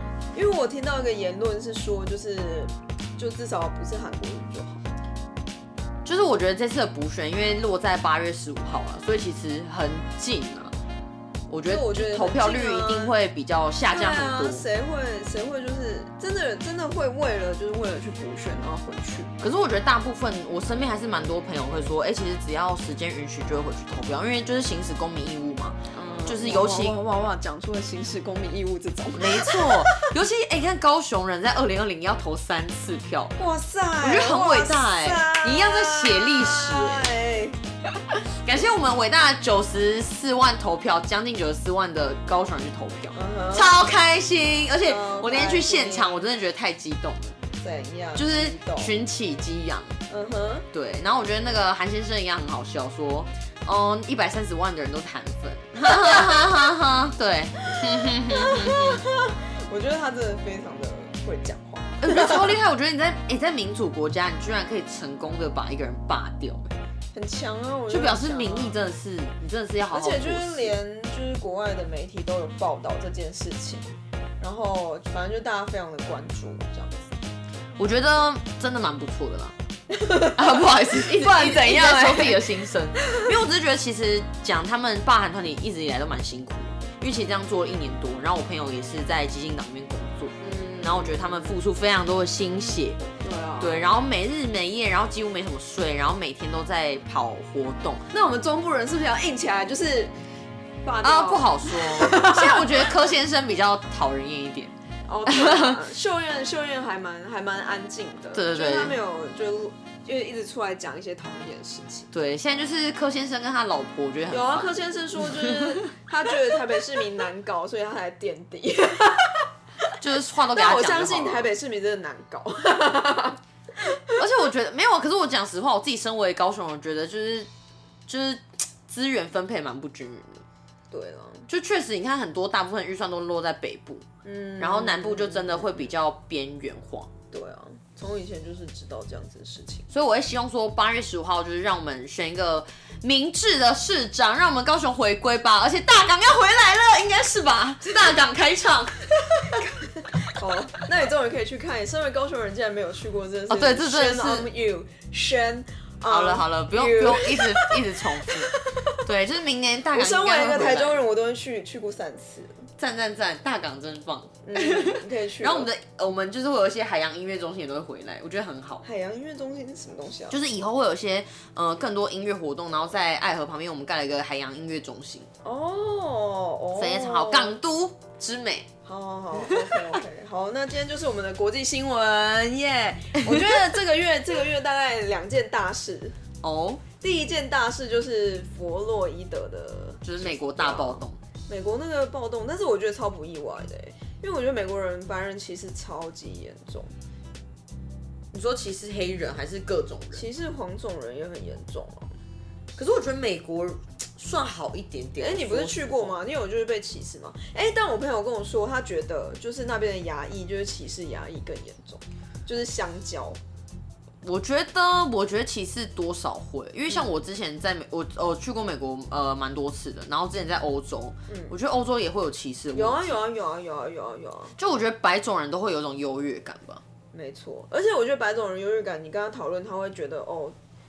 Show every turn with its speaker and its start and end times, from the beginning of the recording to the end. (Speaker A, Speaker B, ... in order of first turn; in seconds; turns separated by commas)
Speaker A: 0.3-4.9, Speaker B: 6.0-10.8, Speaker B: 11.5-14.6, Speaker A: 11.7-13.1, Speaker A: 13.9-19.3, Speaker B: 19.4-27.0, Speaker A: 25.9-30.1, Speaker B: 29.1-33.4, Speaker A: 33.4-37.6, Speaker B: 34.0-37.1, Speaker B: 38.4-47.4, Speaker A: 43.1-43.8, Speaker A: 44.8-46.2, Speaker A: 47.6-48.9, Speaker B: 48.1-50.0, Speaker A: 50.1-50.7, Speaker B: 50.7-59.0, Speaker A: 58.0-62.5, Speaker B: 62.0-66.8, Speaker A: 67.1-68.8, Speaker B: 67.9-70.7, Speaker A: 69.9-77.1, Speaker B: 77.8-79.5, Speaker A: 79.9-83.3, Speaker B: 80.3-93.0, Speaker A: 90.4-91.5, Speaker A: 93.2-93.9, Speaker B: 93.6-98.1, Speaker A: 98.1-100.1, Speaker A: 100.8-102.9, Speaker B: 101.0-104.7, Speaker A: 105.1-112.1, Speaker B: 105.3-105.8, Speaker B: 108.3-109.0, Speaker B: 112.1-114.8, Speaker A: 114.3-119.5, Speaker B: 115.3-115.7, Speaker B: 120.0-121.5, Speaker A: 120.5-123.4, Speaker B: 124.2-127.5, Speaker B: 128.1-130.4, Speaker A: 130.9-131.5, Speaker B: 131.5-134.1, Speaker A: 134.2-135.9, Speaker B: 134.6-137.1, Speaker A: 137.3-139.9, Speaker B: 139.9-149.7, Speaker A: 150.2-159.0, Speaker B: 153.5-154.5, Speaker B: 156.1-161.0, Speaker A: 159.9-162.7, Speaker B: 162.8-168.8, Speaker A: 164.4-165.7, Speaker A: 168.8-170.4, Speaker B: 170.3-175.3, Speaker A: 175.4-177.6, Speaker B: 176.8-178.7, Speaker A: 178.8-186.2, Speaker B: 186.4-186.8, Speaker A: 187.0-196.9, Speaker B: 190.0-191.2, Speaker B: 198.3-200.2, Speaker A: 200.1-202.2, Speaker B: 202.8-206.2, Speaker A: 205.2-213.4, Speaker B: 214.2-223.2, Speaker A: 221.3-221.5, Speaker A: 222.7-224.6, Speaker B: 224.6-226.8, Speaker A: 227.1-230.6